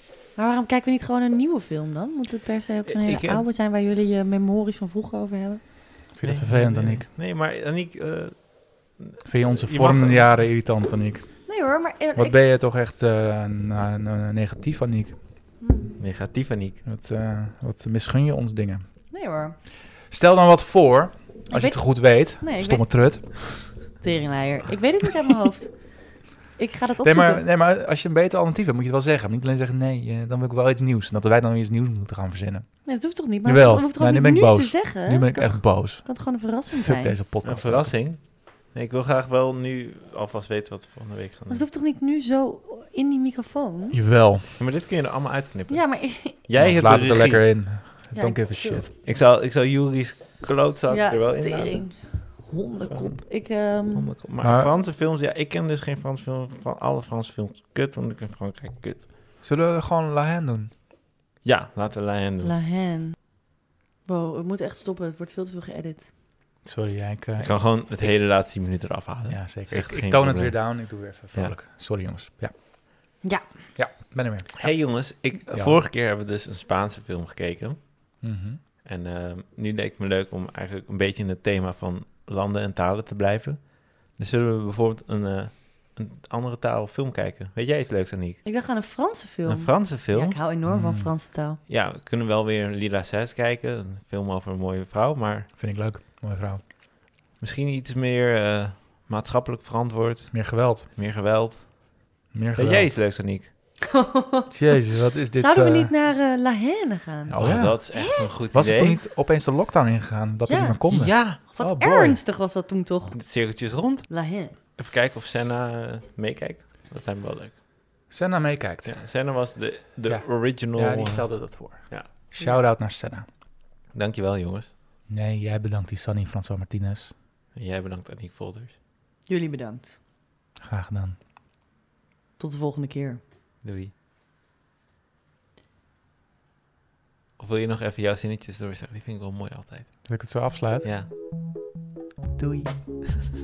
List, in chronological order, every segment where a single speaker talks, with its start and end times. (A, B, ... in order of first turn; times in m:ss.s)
0:00.3-0:06.1 A
0:02.8-0:03.4 B
0:06.1-0:07.1 C
0:06.2-0:10.4 B
0:09.2-0:11.6 C
0:11.4-0:12.4 A
0:12.1-0:15.2 C
0:15.6-0:15.9 A
0:16.0-0:16.8 B
0:16.8-0:19.1 C
0:19.1-0:19.6 A
0:20.0-0:23.9 C
0:21.5-0:27.4 A
0:27.0-0:37.9 C
0:32.8-0:37.2 A
0:37.4-0:41.6 B
0:41.5-0:44.0 A
0:43.9-0:44.6 C
0:44.6-0:47.5 B
0:45.7-0:46.4 A
0:46.5-0:48.9 C
0:48.1-0:49.0 A
0:49.0-0:59.1 B
0:50.9-0:54.1 A
0:54.4-0:54.7 C
0:59.4-1:00.7 C
1:01.4-1:02.5 B
1:02.4-1:03.4 A
1:04.0-1:06.1 A
1:06.6-1:07.8 C
1:07.4-1:11.6 B
1:09.3-1:13.2 C
1:13.2-1:13.7 A
1:13.8-1:15.8 C
1:14.6-1:18.2 B
1:18.2-1:18.6 C
1:18.8-1:28.4 B
1:28.4-1:31.6 A
1:29.4-1:30.4 B
1:30.6-1:31.1 C
1:31.7-1:35.5 B
1:35.5-1:36.6 C
1:37.4-1:42.0 B
1:40.3-1:40.9 C
1:42.3-1:43.0 C
1:42.5-1:43.5 B
1:43.9-1:44.5 A
1:44.5-1:45.9 C
1:45.4-1:48.3 A
1:47.3-1:52.2 C
1:47.4-1:49.0 B
1:50.4-1:54.6 A
1:50.9-1:51.4 B
1:53.1-1:57.6 B
1:58.1-1:59.5 C
1:58.8-2:02.1 B
2:00.0-2:03.2 C
2:03.9-2:04.7 B
2:05.1-2:07.1 C
2:07.5-2:08.7 B
2:09.3-2:10.0 A
2:10.6-2:11.2 C
2:12.4-2:13.2 A
2:13.6-2:13.9 B
2:17.4-2:21.1 B
2:20.0-2:20.9 C
2:22.4-2:23.1 C